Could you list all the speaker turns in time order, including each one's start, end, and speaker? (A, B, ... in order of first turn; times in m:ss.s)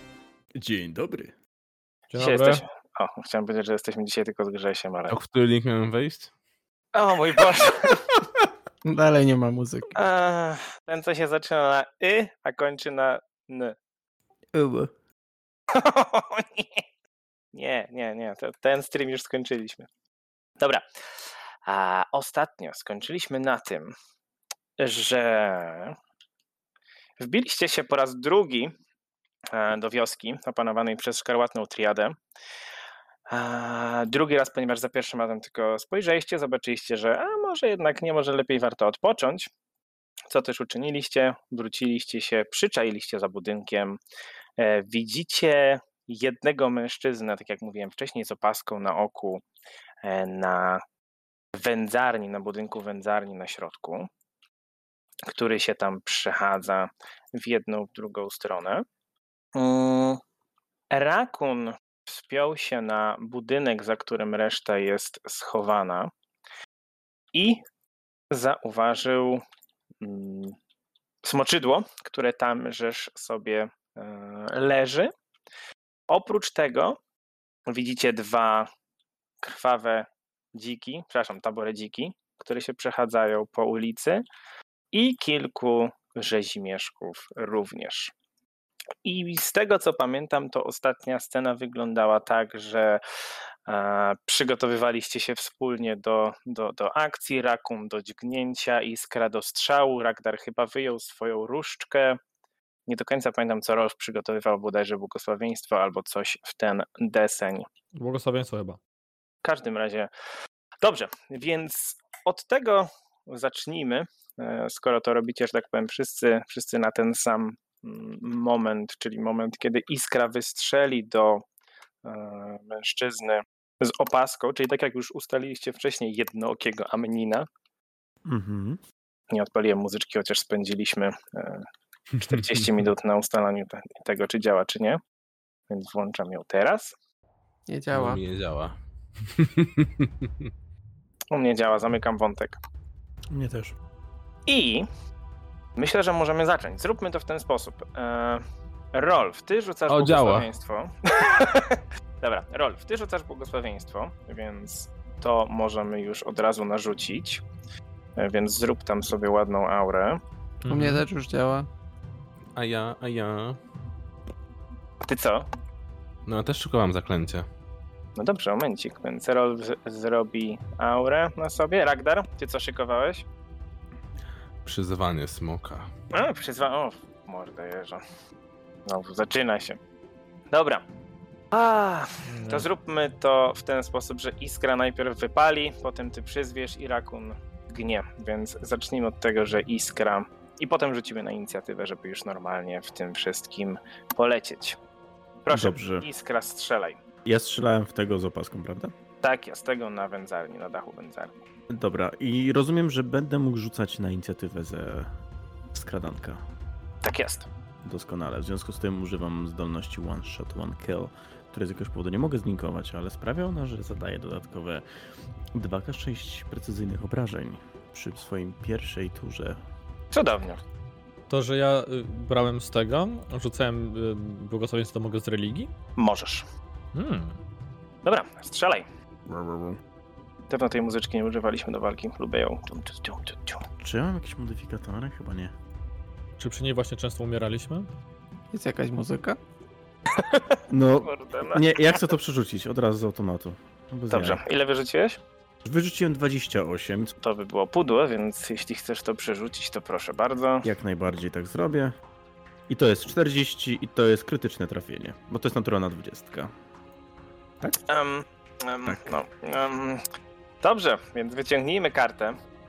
0:00.6-0:01.3 A
0:02.1-0:02.6 B
0:02.2-0:05.2 C
0:05.1-0:06.3 D
0:06.9-0:08.0 C
0:08.8-0:09.9 E
0:10.0-0:13.8 C
0:14.5-0:14.9 A
0:15.7-0:16.8 C
0:17.5-0:19.9 C
0:20.6-0:20.8 C
0:21.6-0:23.9 C
0:24.8-0:26.0 C
0:27.2-0:28.7 C
0:29.5-0:32.2 C
0:33.3-0:39.5 C
0:40.3-0:44.0 C
0:44.6-0:49.4 C
0:50.0-0:50.8 C
0:51.5-0:54.1 C
0:55.3-0:58.8 C
0:59.6-1:00.2 C
1:00.9-1:06.1 C
1:07.3-1:07.6 C
1:08.3-1:09.4 C
1:10.0-1:10.6 C
1:11.2-1:15.1 C
1:16.1-1:17.0 C
1:17.7-1:18.7 C
1:19.4-1:24.2 C
1:24.9-1:28.1 C
1:29.0-1:33.0 C
1:33.7-1:42.2 C
1:42.9-1:47.7 C
1:48.0-1:48.8 B
1:49.4-1:50.1 C
1:50.8-2:01.4 C
2:02.0-2:07.5 C
2:08.2-2:08.8 A
2:09.3-2:11.7 C
2:12.2-2:12.6 D
2:12.2-2:15.0 C
2:15.7-2:16.9 C
2:17.7-2:18.2 E
2:17.9-2:18.8 D
2:19.3-2:20.5 D
2:21.3-2:22.6 C
2:23.3-2:23.8 A
2:24.5-2:24.8 C
2:25.8-2:28.4 C
2:28.9-2:37.4 C
2:29.9-2:30.5 D
2:38.2-2:40.2 C
2:40.6-2:41.0 B
2:40.7-2:41.7 E
2:42.6-2:43.6 D
2:45.0-2:45.5 C
2:46.2-2:47.5 D
2:48.2-2:53.2 C
2:54.6-2:55.9 D
2:56.1-2:58.0 C
2:58.8-2:59.8 C
3:00.5-3:00.8 C
3:01.5-3:14.8 C
3:02.3-3:02.7 B
3:15.4-3:17.0 C
3:15.5-3:16.1 A
3:17.2-3:18.9 A
3:19.2-3:21.3 C
3:21.7-3:25.1 A
3:25.7-3:26.4 A
3:27.0-3:27.5 C
3:27.8-3:34.8 A
3:35.5-3:39.6 A
3:40.1-3:40.6 C
3:41.3-3:45.7 B
3:46.0-3:46.5 C
3:46.9-3:47.4 B
3:48.0-3:48.8 C
3:49.3-3:49.8 A
3:50.5-3:53.6 C
3:53.8-3:55.5 A
3:56.4-3:57.9 B
3:58.5-3:59.4 E
4:00.1-4:02.1 C
4:00.7-4:04.4 A
4:04.1-4:05.2 C
4:05.6-4:07.2 A
4:07.2-4:10.7 C
4:10.6-4:12.0 A
4:12.7-4:16.5 A
4:17.9-4:20.0 C
4:18.8-4:19.2 A
4:20.6-4:22.4 C